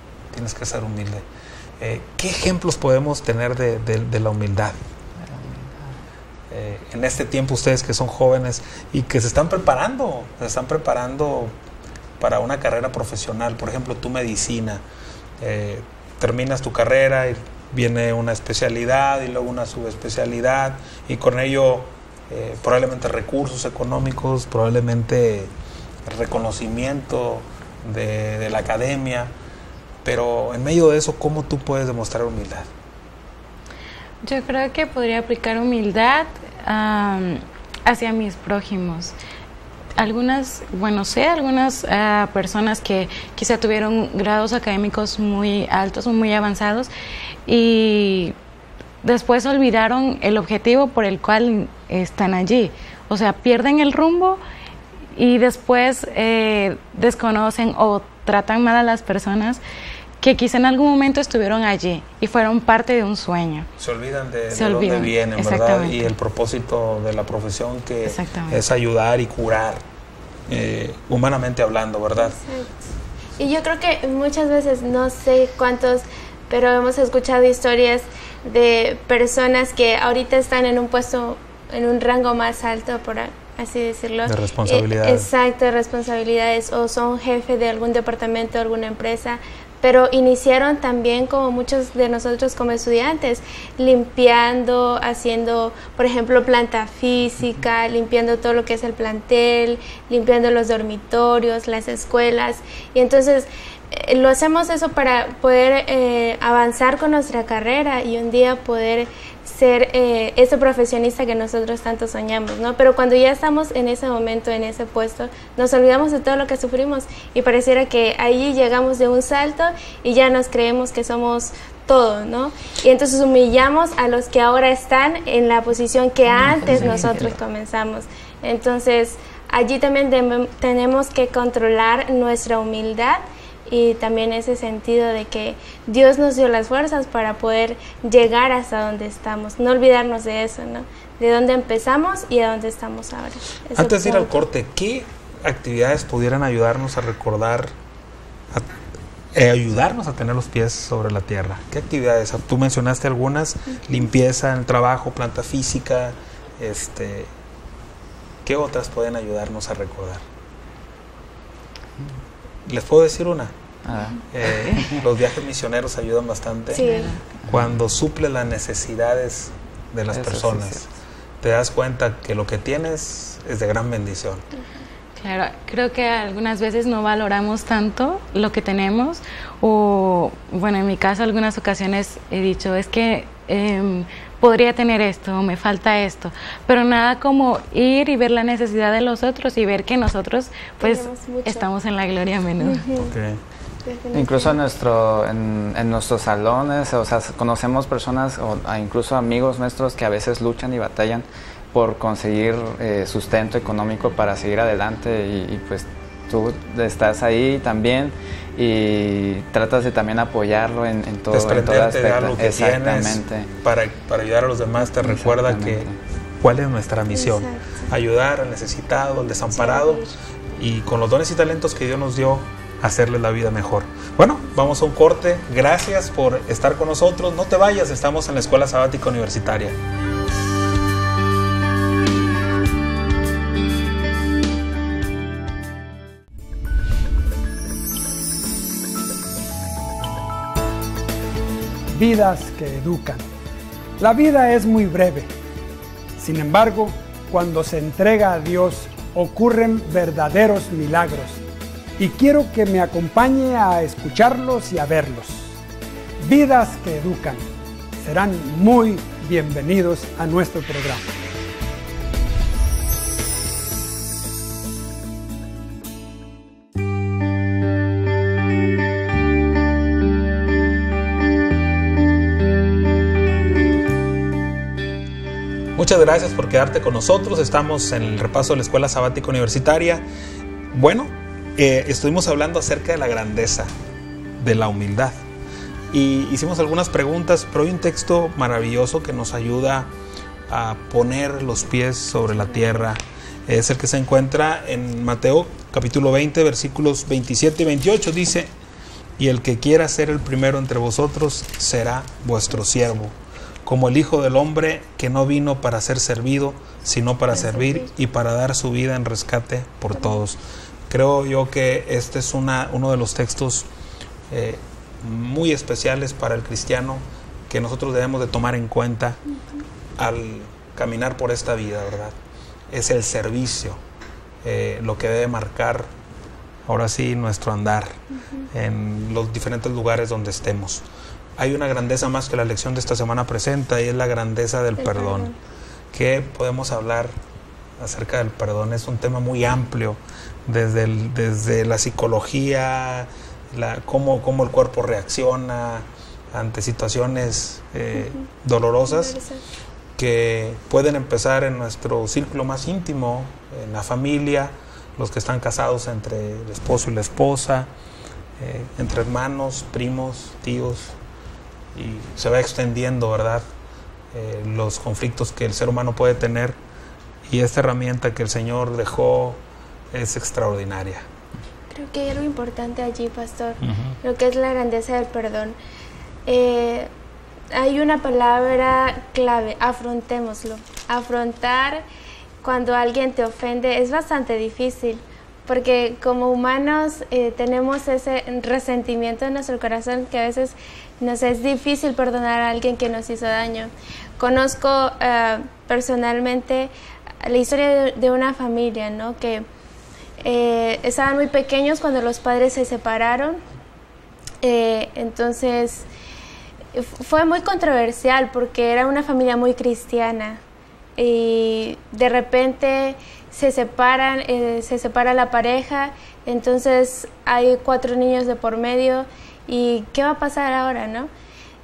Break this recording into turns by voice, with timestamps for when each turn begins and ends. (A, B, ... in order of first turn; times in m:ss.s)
0:00.3-0:01.2 A
0:01.8-0:04.8 A
0:05.3-0:05.7 B
0:06.5-0:11.5 A
0:12.2-0:14.8 A
0:15.4-0:25.5 A
0:26.0-0:29.3 A
0:30.0-0:32.7 A
0:34.2-0:39.1 C
0:39.9-0:46.9 C
0:47.4-0:48.3 C
0:49.0-0:54.4 C
0:55.1-0:59.6 C
1:00.2-1:03.7 C
1:03.8-1:09.8 A
1:04.5-1:06.1 C
1:08.0-1:08.6 C
1:10.5-1:12.4 A
1:12.2-1:12.8 D
1:13.4-2:24.4 D
1:24.2-1:25.3 A
2:06.3-2:07.4 C
2:23.7-2:27.7 A
2:29.3-2:37.3 A
2:38.4-2:40.2 A
2:42.6-2:43.5 A
2:43.8-2:44.2 B
2:44.3-2:46.9 A
2:46.7-2:47.2 D
2:46.7-2:47.2 C
2:47.4-2:50.9 A
2:50.1-2:50.8 B
2:51.4-2:54.4 A
2:55.2-3:12.8 C
3:10.8-3:11.7 D
3:12.6-3:13.1 D
3:13.0-3:13.4 A
3:13.8-3:14.6 D
3:14.1-3:33.5 B
3:31.3-3:35.9 A
3:35.0-3:35.9 B
3:36.4-3:40.0 A
3:37.1-3:37.9 D
3:39.5-3:40.2 D
3:40.6-3:49.8 A
4:01.9-4:03.3 E
4:04.0-4:05.3 E
4:06.2-4:11.4 E
4:12.0-4:15.5 E
4:16.2-4:17.4 E
4:18.0-4:21.0 E
4:35.8-4:40.0 A
4:40.7-4:43.7 A
4:44.4-4:45.2 A
4:45.9-4:49.9 A
4:50.5-4:58.5 A
4:59.2-5:03.1 A
5:03.6-5:10.4 A
5:07.4-5:07.8 D
5:10.9-5:13.7 A
5:14.3-5:19.2 A
5:20.0-5:22.2 A
5:22.7-5:23.8 A
5:24.4-5:25.9 A
5:26.6-5:28.0 A
5:28.5-5:30.8 A
5:31.4-5:35.3 A
5:34.8-5:35.4 D
5:35.9-5:37.1 A
5:37.8-5:49.2 A
5:48.8-5:49.4 D
5:50.0-5:57.7 A
5:58.4-6:01.0 A
6:01.7-6:03.4 A
6:04.1-6:06.6 A
6:07.2-6:09.4 A
6:09.9-6:11.0 A
6:11.7-6:15.6 D
6:13.6-6:13.9 A
6:16.2-6:16.9 D
6:17.5-6:21.8 D
6:22.4-6:36.7 D
6:37.2-6:39.4 D
6:40.2-6:43.4 D
6:44.4-6:45.9 D
6:46.7-6:50.4 D
6:51.0-7:01.1 D